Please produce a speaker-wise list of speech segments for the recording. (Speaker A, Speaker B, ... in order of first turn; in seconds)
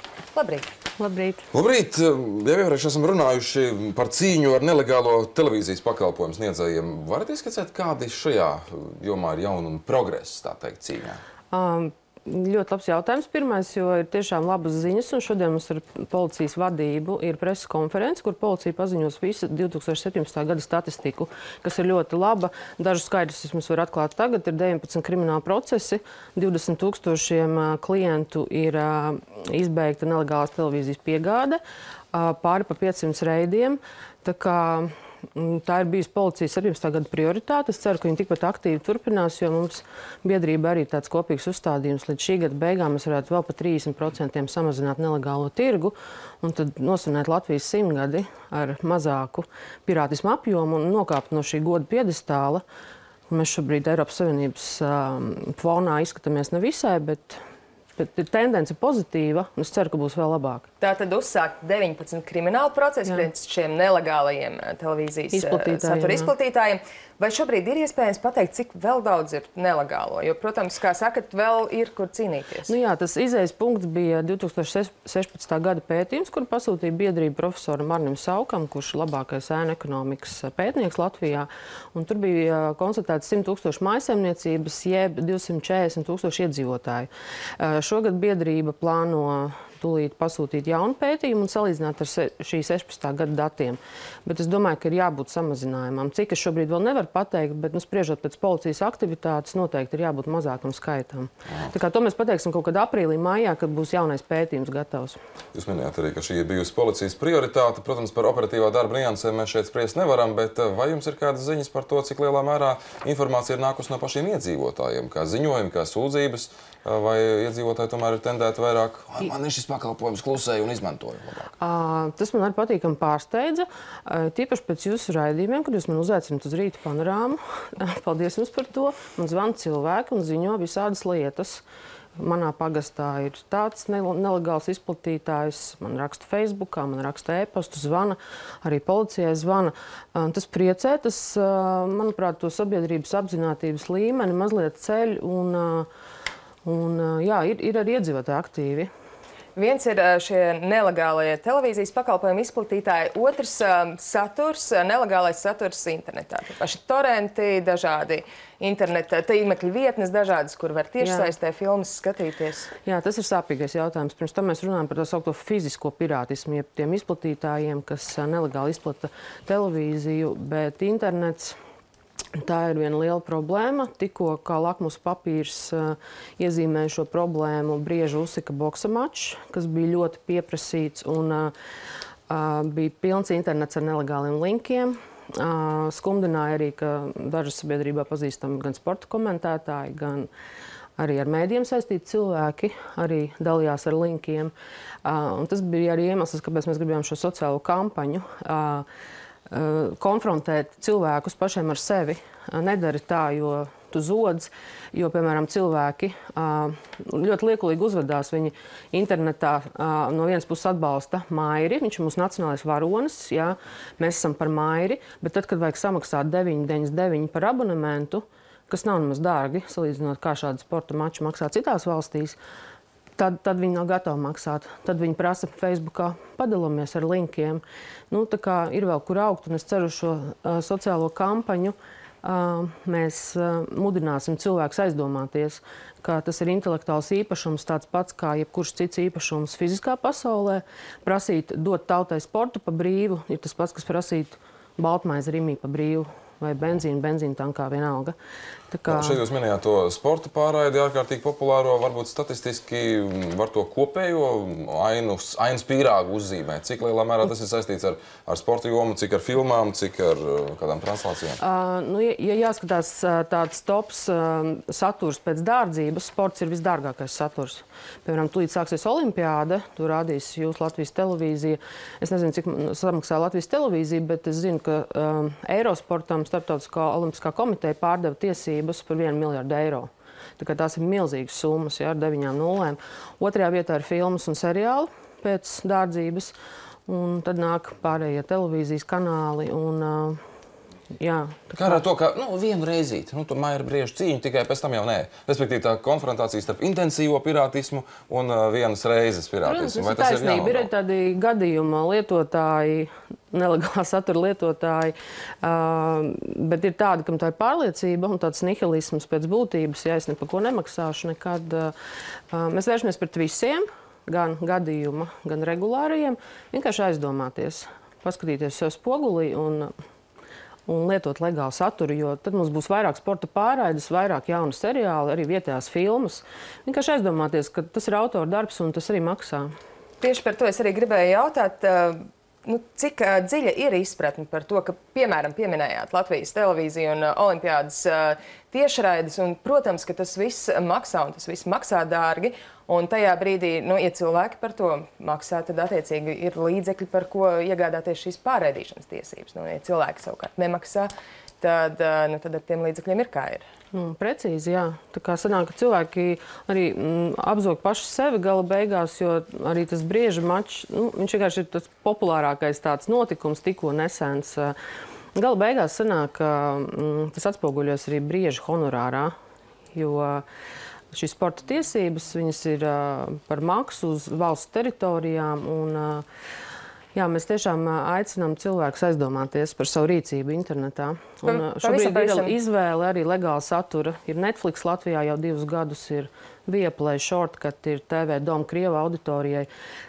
Speaker A: 0.3-0.7, 60.8-72.7, 149.6-162.7, 330.0-353.4, 381.2-382.3
Speaker B: 1.0-1.4, 11.5-31.6, 32.1-52.6, 53.3-57.4, 58.0-60.7, 65.3-66.3, 72.7-105.2, 121.6-131.6, 132.2-145.9, 146.7-148.9, 161.0-161.3, 162.9-171.6, 172.4-181.5, 182.3-190.3, 191.0-194.5, 195.0-198.9, 199.5-222.4, 223.2-248.2, 248.7-249.2, 261.4-286.3, 286.9-290.2, 291.0-291.8, 299.4-311.7, 312.3-319.7, 320.7-329.5, 353.7-364.6, 365.1-369.1, 369.7-370.2, 370.9-376.0, 376.9-389.5
Speaker C: 1.5-11.2, 105.5-121.5, 248.9-261.4, 291.6-300.7